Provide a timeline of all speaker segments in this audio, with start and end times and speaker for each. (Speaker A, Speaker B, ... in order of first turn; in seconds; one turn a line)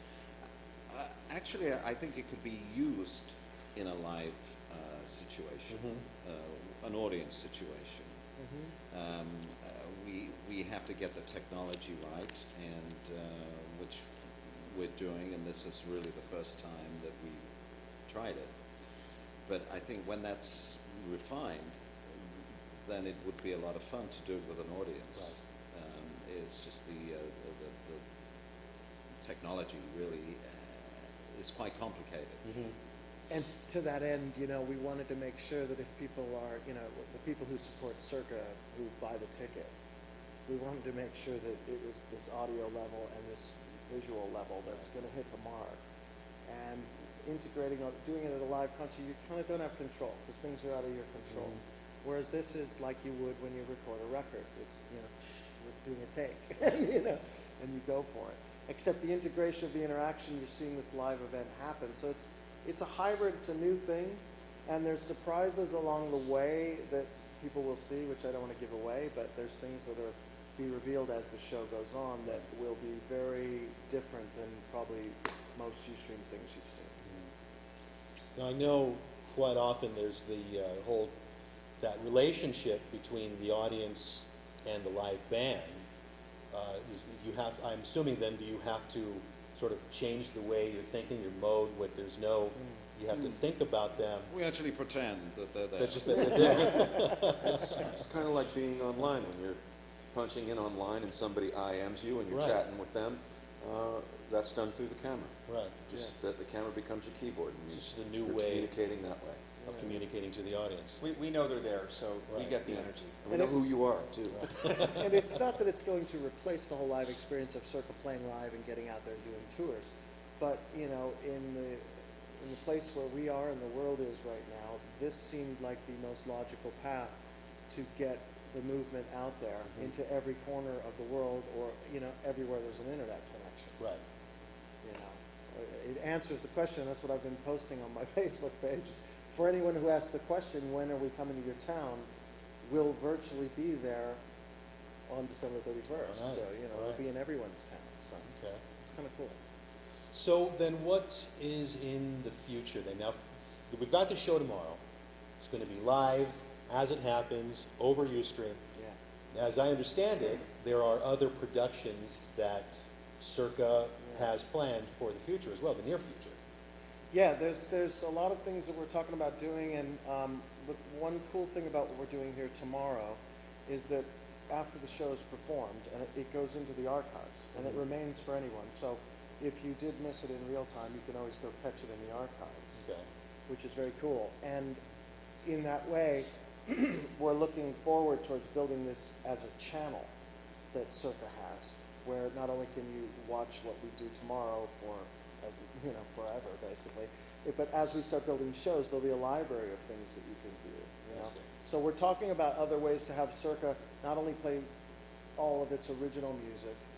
Speaker A: 0.9-8.1
Speaker B: 5.7-6.0
Speaker C: 8.4-8.7
Speaker A: 8.9-17.4
Speaker A: 18.1-18.5
Speaker A: 19.4-28.0
Speaker A: 29.2-32.5
Speaker B: 32.4-32.8
Speaker C: 33.3-39.7
Speaker C: 40.5-45.8
Speaker C: 46.5-76.9
Speaker B: 51.3-51.6
Speaker B: 78.3-81.1
Speaker B: 81.8-85.8
Speaker B: 86.5-94.3
Speaker A: 94.3-96.7
Speaker B: 95.8-97.8
Speaker C: 96.3-97.0
Speaker D: 96.4-96.8
Speaker D: 97.8-99.6
Speaker D: 100.1-109.5
Speaker B: 102.3-102.6
Speaker B: 105.5-105.8
Speaker B: 107.7-108.7
Speaker C: 109.6-109.9
Speaker B: 109.6-111.0
Speaker E: 111.0-113.2
Speaker B: 112.3-112.5
Speaker D: 112.5-115.0
Speaker C: 113.3-113.6
Speaker B: 114.3-115.0
Speaker C: 114.6-121.9
Speaker C: 122.4-133.8
Speaker C: 134.8-142.1
Speaker C: 142.6-144.2
Speaker C: 145.1-149.3
Speaker B: 146.1-147.0
Speaker B: 148.3-148.6
Speaker B: 150.1-154.8
Speaker B: 155.4-158.6
Speaker B: 159.3-166.3
Speaker C: 164.0-164.3
Speaker C: 167.1-182.8
Speaker C: 183.5-184.8
Speaker C: 185.4-190.1
Speaker C: 190.7-204.7
Speaker B: 201.1-201.4
Speaker C: 205.4-206.8